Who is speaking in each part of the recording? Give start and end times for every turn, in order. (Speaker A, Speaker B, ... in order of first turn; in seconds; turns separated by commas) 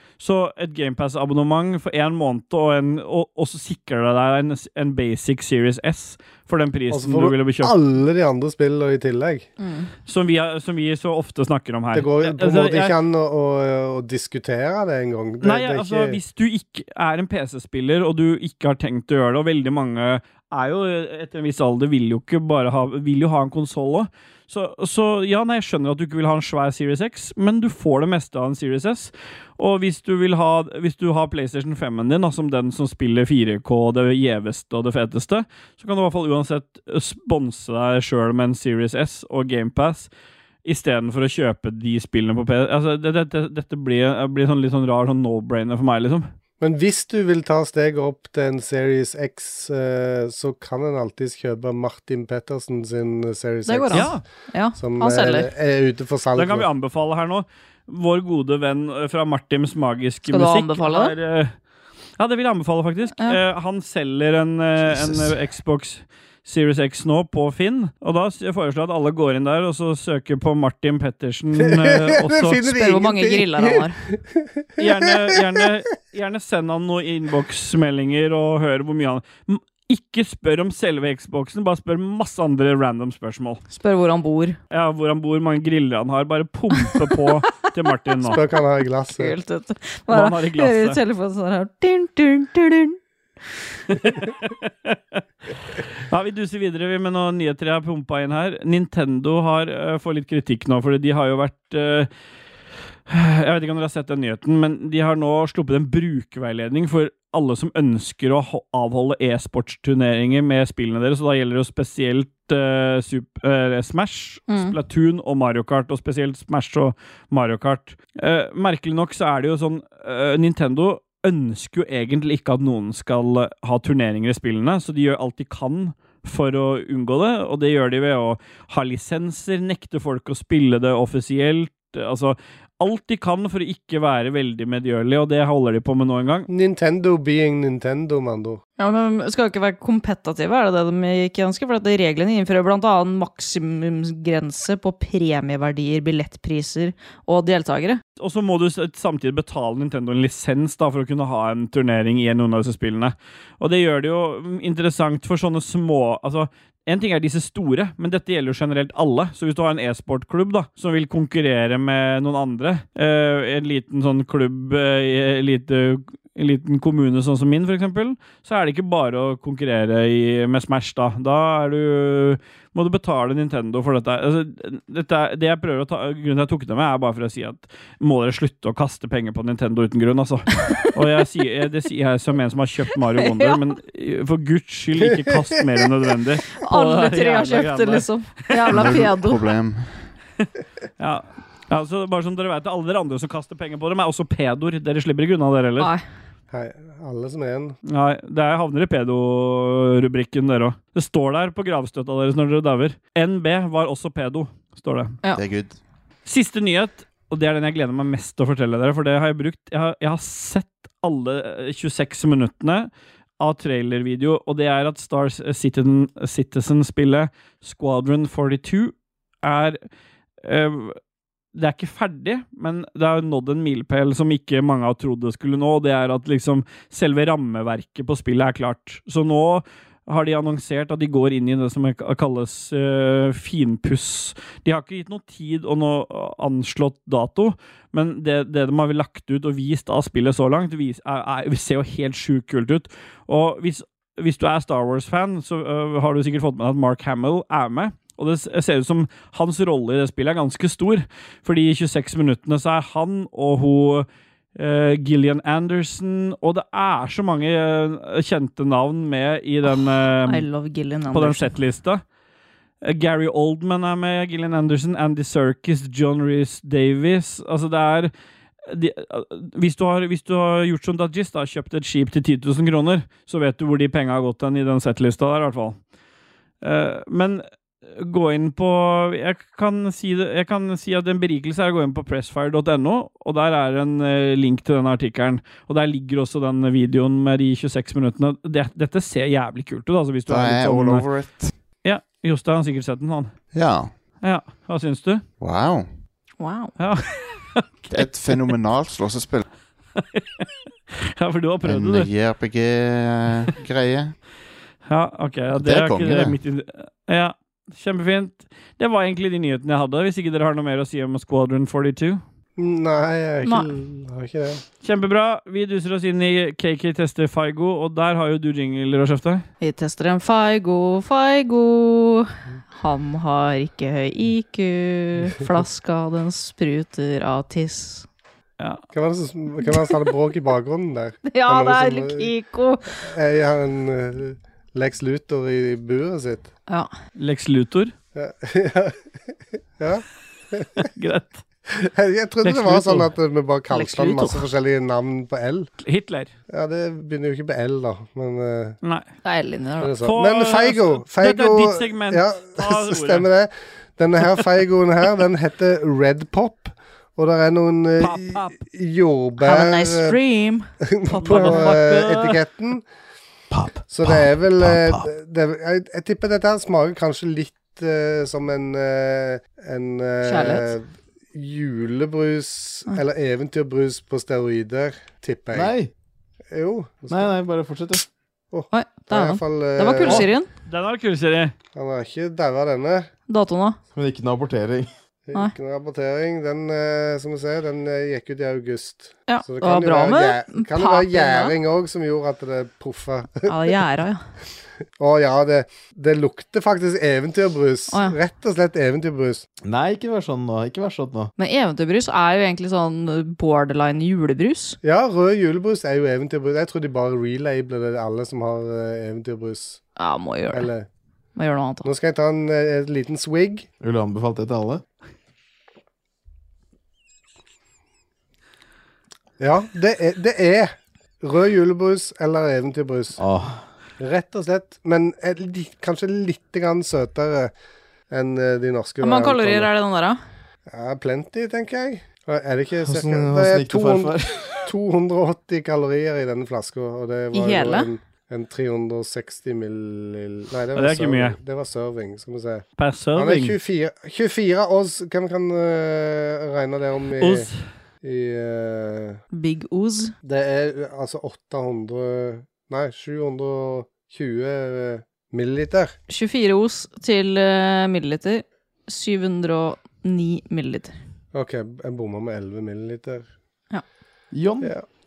Speaker A: 0.2-7.7, Speaker B: 6.9-9.5, Speaker C: 9.6-9.9, Speaker A: 10.1-12.9, Speaker B: 11.9-16.2, Speaker A: 15.4-40.1, Speaker A: 40.6-46.3, Speaker B: 46.6-54.1, Speaker C: 53.6-55.5, Speaker A: 53.9-54.2, Speaker B: 54.7-56.7, Speaker A: 56.4-61.5, Speaker C: 60.3-61.1, Speaker A: 62.2-72.6, Speaker B: 71.6-75.7, Speaker C: 72.6-74.0, Speaker A: 74.8-83.6, Speaker C: 83.7-84.6, Speaker A: 84.7-88.4, Speaker B: 88.2-89.3, Speaker C: 89.1-93.0, Speaker A: 90.1-91.0, Speaker A: 94.1-95.2, Speaker A: 96.0-102.1, Speaker A: 103.1-136.5, Speaker C: 114.5-114.8, Speaker B: 136.5-138.6, Speaker C: 138.8-148.0, Speaker A: 148.2-189.0, Speaker C: 183.2-183.6, Speaker C: 186.6-189.4, Speaker D: 188.7-190.1, Speaker A: 191.0-195.9, Speaker B: 196.5-197.8, Speaker A: 197.8-205.2, Speaker D: 205.3-205.8, Speaker A: 206.2-219.8, Speaker A: 220.4-221.0, Speaker A: 221.5-260.5, Speaker C: 259.6-261.5, Speaker A: 261.1-262.0, Speaker A: 262.8-268.1, Speaker A: 268.6-275.8, Speaker A: 276.6-291.1, Speaker D: 290.3-291.5, Speaker A: 291.8-293.4, Speaker D: 293.5-293.9, Speaker A: 294.2-295.2, Speaker D: 295.4-295.9, Speaker C: 296.4-296.7, Speaker A: 296.8-298.4, Speaker D: 297.9-299.4, Speaker A: 299.9-300.4, Speaker A: 301.2-302.1, Speaker D: 301.6-304.2, Speaker A: 304.9-312.2, Speaker D: 305.6-306.4, Speaker B: 312.6-314.6, Speaker A: 314.8-319.4, Speaker C: 319.6-328.1, Speaker B: 328.9-332.3, Speaker C: 329.7-330.1, Speaker C: 331.3-333.1, Speaker B: 333.0-336.5, Speaker A: 337.2-337.9, Speaker B: 338.1-339.0, Speaker B: 339.8-340.8, Speaker A: 340.9-341.4, Speaker B: 341.7-345.7, Speaker A: 342.4-343.1, Speaker C: 343.7-344.4, Speaker A: 345.8-346.3, Speaker B: 346.5-348.8, Speaker C: 349.2-349.9, Speaker B: 349.8-360.1, Speaker A: 350.0-353.3, Speaker A: 358.0-358.6, Speaker C: 359.4-361.9, Speaker B: 360.9-362.8, Speaker A: 361.2-362.3, Speaker E: 363.5-365.0, Speaker B: 363.9-375.7, Speaker C: 370.2-370.7, Speaker E: 375.5-375.9, Speaker B: 376.5-377.3, Speaker E: 377.1-378.1, Speaker B: 378.5-380.3, Speaker C: 378.7-380.5, Speaker A: 380.6-381.5, Speaker B: 381.7-383.1, Speaker C: 383.3-383.8, Speaker E: 383.9-384.9, Speaker B: 385.3-393.8, Speaker C: 389.3-391.5, Speaker C: 393.4-394.2, Speaker B: 395.0-399.4, Speaker C: 397.9-398.2, Speaker E: 399.6-401.3, Speaker C: 401.4-404.8, Speaker B: 404.8-409.8, Speaker C: 410.0-410.7, Speaker B: 410.5-410.9, Speaker C: 411.4-411.9, Speaker B: 411.8-413.7, Speaker E: 413.8-414.8, Speaker B: 419.4-423.2, Speaker E: 423.2-423.6, Speaker B: 424.0-427.5, Speaker B: 428.1-429.7, Speaker C: 429.0-430.2, Speaker B: 430.7-447.5, Speaker E: 432.8-434.7, Speaker C: 437.3-437.9, Speaker A: 440.7-441.4, Speaker A: 442.8-443.5, Speaker A: 447.2-447.6, Speaker B: 448.0-449.2, Speaker C: 449.3-450.1, Speaker B: 450.2-455.9, Speaker C: 456.1-460.9, Speaker B: 461.3-463.3, Speaker E: 464.3-464.7, Speaker B: 464.6-464.9